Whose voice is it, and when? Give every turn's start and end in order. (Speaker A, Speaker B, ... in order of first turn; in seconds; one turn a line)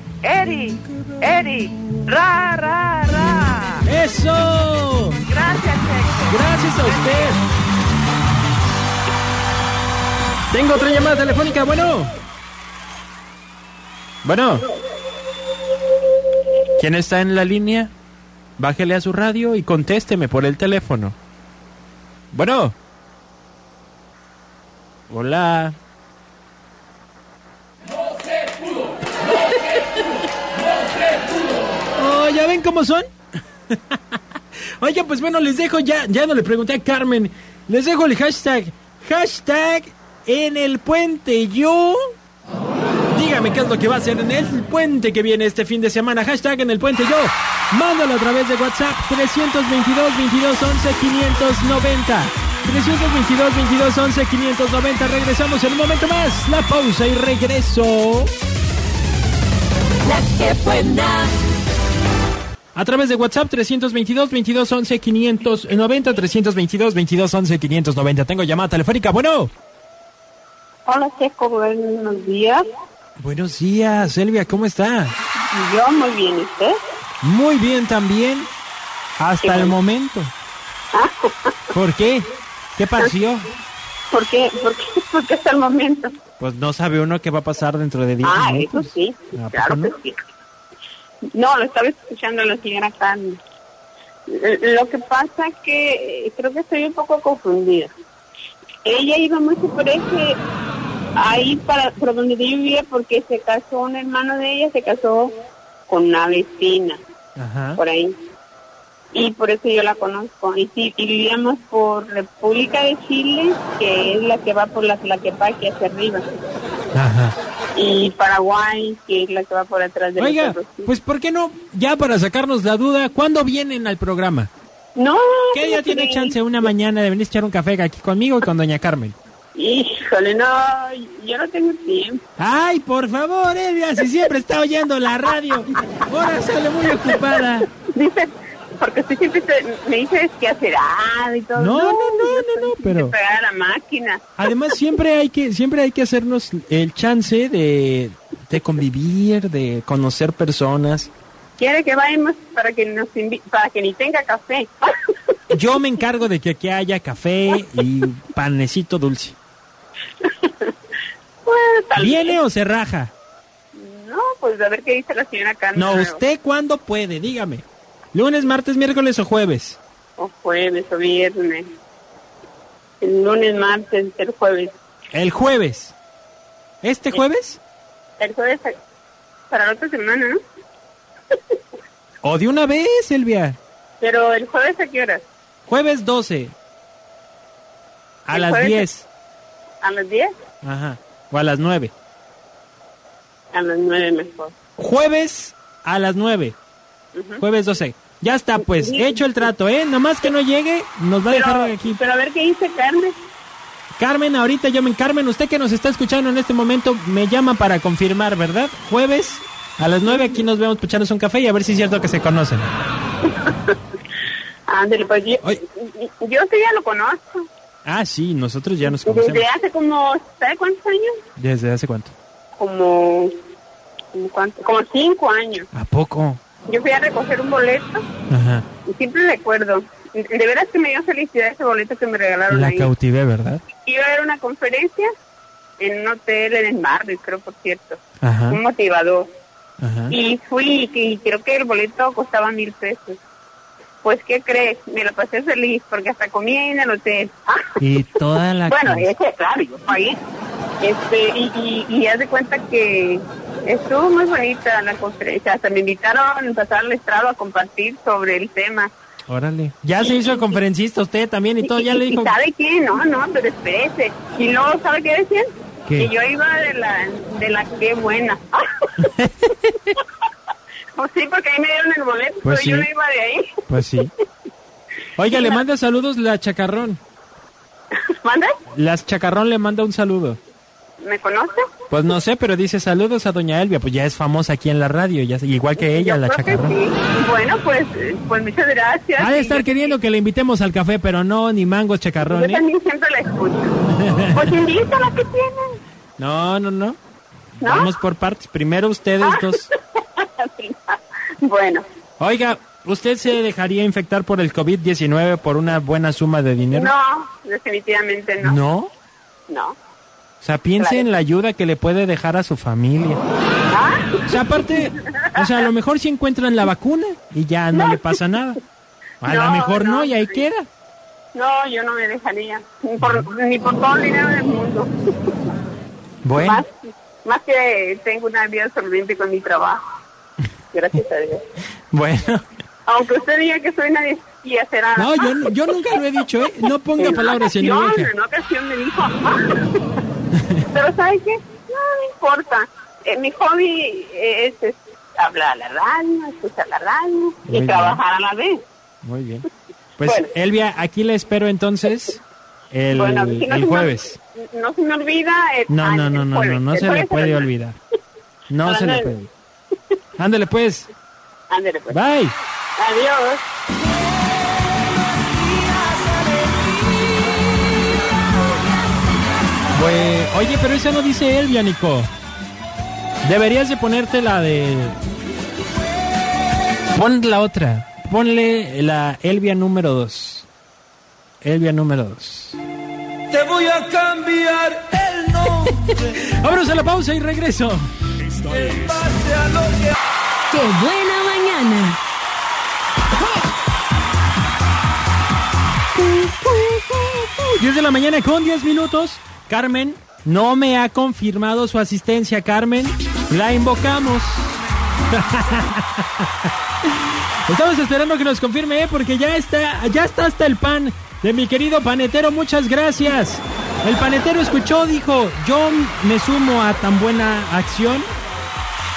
Speaker A: 0.2-3.9
Speaker B: 3.9-5.2
Speaker A: 5.3-7.4
Speaker B: 6.3-7.4
Speaker B: 10.5-12.1
Speaker B: 14.2-14.7
Speaker B: 16.8-17.9
Speaker B: 18.6-21.2
Speaker B: 22.3-22.8
Speaker B: 25.1-25.8
Speaker B: 29.5-30.0
Speaker B: 31.9-33.1
Speaker B: 33.7-34.0
Speaker B: 34.8-42.0
Speaker B: 43.1-58.3
Speaker C: 60.1-61.3
Speaker B: 62.8-69.5
Speaker D: 70.8-72.6
Speaker B: 73.2-75.2
Speaker D: 75.5-76.8
Speaker B: 77.2-78.5
Speaker B: 79.2-80.3
Speaker D: 79.4-79.8
Speaker D: 80.9-81.7
Speaker B: 81.7-83.5
Speaker D: 84.1-86.1
Speaker B: 86.4-89.9
Speaker D: 88.2-90.2
Speaker D: 91.3-93.4
Speaker D: 94.3-97.9
Speaker D: 98.8-100.4
Speaker D: 101.2-105.3
Speaker D: 105.9-107.0
Speaker B: 107.4-107.8
Speaker D: 107.8-108.1
Speaker D: 109.1-116.3
Speaker B: 116.9-117.3
Speaker D: 117.8-120.9
Speaker B: 120.2-124.5
Speaker D: 125.0-126.4
Speaker B: 125.5-129.2
Speaker D: 129.5-132.2
Speaker B: 132.4-137.7
Speaker D: 137.9-144.5
Speaker B: 141.6-143.1
Speaker B: 144.4-151.1
Speaker D: 151.6-154.9
Speaker B: 155.5-159.4
Speaker D: 160.4-160.7
Speaker D: 161.4-162.4
Speaker B: 162.0-163.1
Speaker D: 163.7-166.2
Speaker B: 165.8-169.8
Speaker D: 170.2-171.7
Speaker D: 173.0-174.7
Speaker B: 175.1-175.9
Speaker B: 176.8-177.6
Speaker D: 178.2-178.7
Speaker D: 179.5-180.4
Speaker B: 182.2-183.6
Speaker D: 184.0-185.2
Speaker B: 185.7-186.5
Speaker B: 188.3-189.1
Speaker D: 188.3-188.8
Speaker D: 189.8-190.3
Speaker B: 190.6-191.9
Speaker D: 193.5-194.5
Speaker B: 194.8-196.6
Speaker D: 197.1-197.4
Speaker B: 197.4-202.0
Speaker D: 198.7-199.2
Speaker D: 201.3-203.2
Speaker B: 204.0-212.7
Speaker D: 213.4-213.8
Speaker D: 214.7-217.5
Speaker B: 217.8-219.5
Speaker D: 219.0-221.2
Speaker B: 221.4-222.1
Speaker D: 222.6-223.3
Speaker D: 224.2-225.7
Speaker B: 225.7-226.4
Speaker D: 226.7-228.0
Speaker B: 228.3-228.7
Speaker D: 228.8-232.9
Speaker B: 232.5-233.6
Speaker D: 233.8-235.1
Speaker D: 235.8-239.3
Speaker B: 238.2-238.6
Speaker B: 239.8-240.2
Speaker D: 240.1-243.2
Speaker D: 244.0-247.7
Speaker B: 247.8-249.1
Speaker D: 248.7-250.2
Speaker D: 250.8-258.9
Speaker B: 259.3-262.4
Speaker D: 260.0-260.6
Speaker D: 261.6-268.9
Speaker B: 265.9-266.1
Speaker B: 269.0-269.9
Speaker D: 271.0-273.5
Speaker B: 272.4-272.9
Speaker B: 273.7-274.1
Speaker B: 275.2-277.0
Speaker D: 275.3-275.6
Speaker D: 278.1-278.5
Speaker B: 278.8-280.4
Speaker D: 281.0-281.6
Speaker B: 281.9-286.8
Speaker D: 285.8-290.0
Speaker B: 289.2-292.6
Speaker D: 292.2-293.8
Speaker B: 293.9-294.5
Speaker D: 294.3-295.8
Speaker B: 296.2-297.0
Speaker B: 297.6-299.7
Speaker D: 297.6-297.9
Speaker D: 299.2-301.8
Speaker B: 302.2-306.9
Speaker D: 306.7-308.6
Speaker B: 308.4-308.9
Speaker D: 309.5-309.8
Speaker B: 310.4-313.2
Speaker D: 310.8-311.1
Speaker D: 313.7-314.1
Speaker B: 314.3-318.6
Speaker B: 319.2-320.7
Speaker D: 319.3-320.4
Speaker D: 321.3-325.3
Speaker B: 323.0-323.3
Speaker B: 326.2-326.6
Speaker D: 326.4-326.7
Speaker D: 327.2-329.8
Speaker D: 330.7-331.4
Speaker B: 331.9-332.4
Speaker D: 332.9-335.9
Speaker B: 335.0-338.1
Speaker D: 337.0-339.8
Speaker D: 340.7-348.6
Speaker B: 347.5-348.0
Speaker B: 349.0-349.5
Speaker B: 350.0-352.2
Speaker D: 350.0-350.3
Speaker B: 352.7-354.2
Speaker D: 352.9-353.9
Speaker D: 354.5-357.5
Speaker B: 355.7-357.8
Speaker B: 358.5-359.3
Speaker D: 358.6-359.1
Speaker B: 360.2-360.9
Speaker D: 361.5-362.0
Speaker B: 361.9-362.4
Speaker D: 362.8-363.4
Speaker B: 369.7-372.1
Speaker B: 373.2-375.0
Speaker B: 376.9-380.5
Speaker B: 381.4-382.6
Speaker E: 383.3-385.7
Speaker B: 385.6-387.9
Speaker E: 388.4-389.9
Speaker C: 390.5-392.0
Speaker B: 396.0-406.3
Speaker B: 407.5-418.1